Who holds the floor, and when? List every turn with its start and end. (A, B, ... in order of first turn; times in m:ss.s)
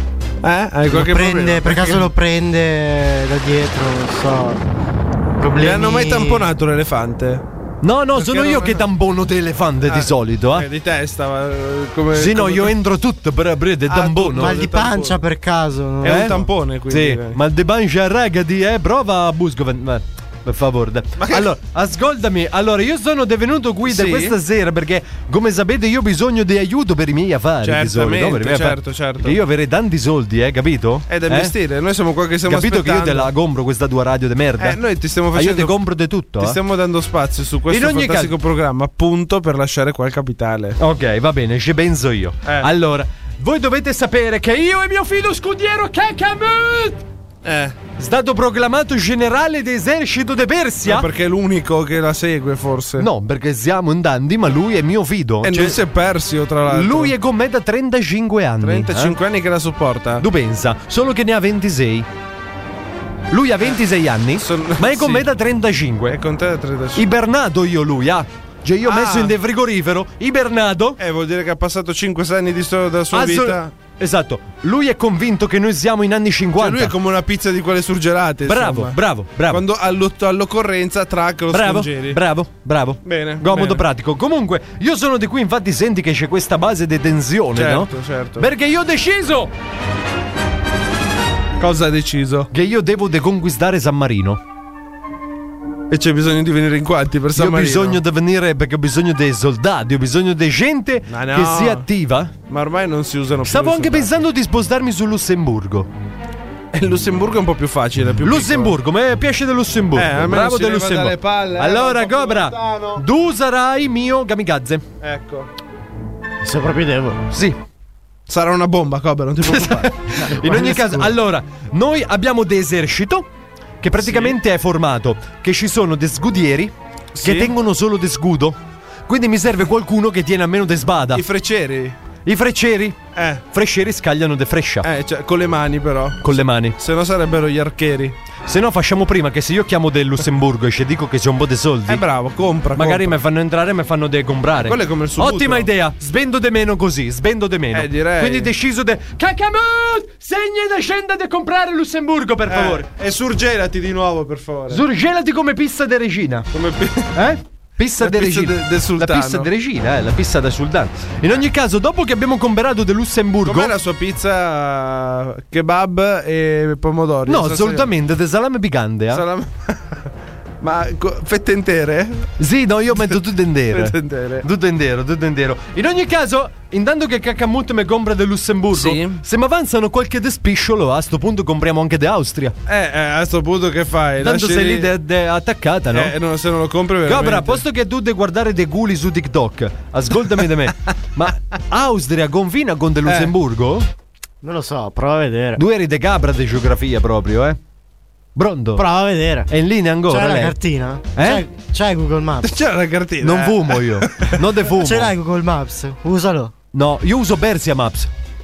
0:00.4-0:02.1 A
0:00.9-0:04.6 B
0:05.4-0:06.5 B
0:05.6-0:07.4 A
0:07.8-0:10.6 C
0:08.2-0:08.8 A
0:09.9-0:12.8 A
0:12.1-0:14.6 C
0:13.9-0:15.2 A
0:14.4-0:16.5 B
0:16.0-0:17.4 A
0:16.0-0:16.4 C
0:16.9-0:31.5 C
0:21.2-0:21.5 A
0:23.8-0:24.4 A
0:27.6-0:29.4 A
0:31.1-0:33.3 A
0:32.5-0:34.8 C
0:34.6-0:35.8 A
0:35.3-0:36.6 C
0:36.4-0:40.8 A
0:37.7-0:38.3 C
0:40.8-0:47.0 C
0:47.4-0:47.8 A
0:48.0-0:51.1 C
0:50.8-0:53.1 A
0:53.0-0:55.8 C
0:55.4-0:57.2 A
0:56.7-0:59.2 C
0:58.6-1:00.2 A
1:00.2-1:02.1 C
1:03.3-1:06.2 C
1:04.4-1:05.3 A
1:06.1-1:07.0 A
1:07.0-1:11.0 C
1:08.8-1:09.4 A
1:11.0-1:13.7 A
1:13.1-1:16.9 C
1:16.6-1:19.0 A
1:18.5-1:19.6 C
1:19.5-1:22.2 A
1:21.5-1:29.5 C
1:23.0-1:23.8 A
1:27.6-1:28.5 A
1:31.6-1:32.5 A
1:32.5-1:34.4 C
1:35.9-1:38.0 A
1:37.4-1:42.3 C
1:41.1-1:41.9 A
1:42.5-1:44.3 A
1:43.4-1:45.9 C
1:46.7-1:48.8 A
1:48.2-1:54.8 C
1:50.0-1:53.0 A
1:55.0-1:55.5 A
1:56.4-1:57.2 B
1:57.3-1:57.6 C
1:58.3-2:00.8 A
1:59.5-2:03.3 C
2:03.8-2:11.2 C
2:04.0-2:04.4 A
2:07.1-2:07.5 A
2:11.1-2:12.0 A
2:12.3-2:13.0 C
2:13.2-2:13.4 A
2:13.5-2:14.9 C
2:14.8-2:18.2 A
2:16.2-2:16.8 C
2:18.5-2:22.0 C
2:21.9-2:23.2 A
2:22.8-2:32.8 C
2:24.6-2:25.7 A
2:27.7-2:28.5 A
2:32.5-2:34.8 A
2:34.7-2:36.5 C
2:36.5-2:37.2 A
2:37.1-2:43.7 C
2:38.0-2:39.5 A
2:43.4-2:47.9 A
2:47.3-2:49.2 C
2:49.1-2:50.0 A
2:50.6-2:52.3 A
2:52.4-3:02.6 C
2:53.7-2:54.5 A
2:58.7-2:59.2 A
3:02.7-3:04.9 A
3:04.2-3:06.1 C
3:05.9-3:07.6 A
3:07.1-3:13.9 C
3:13.0-3:13.3 A
3:14.4-3:15.6 B
3:15.6-3:17.6 C
3:18.4-3:18.8 C
3:18.8-3:19.5 B
3:19.5-3:20.6 C
3:20.1-3:22.5 B
3:21.2-3:21.4 C
3:22.4-3:24.4 A
3:23.2-3:25.1 C
3:24.8-3:26.5 B
3:26.7-3:28.1 C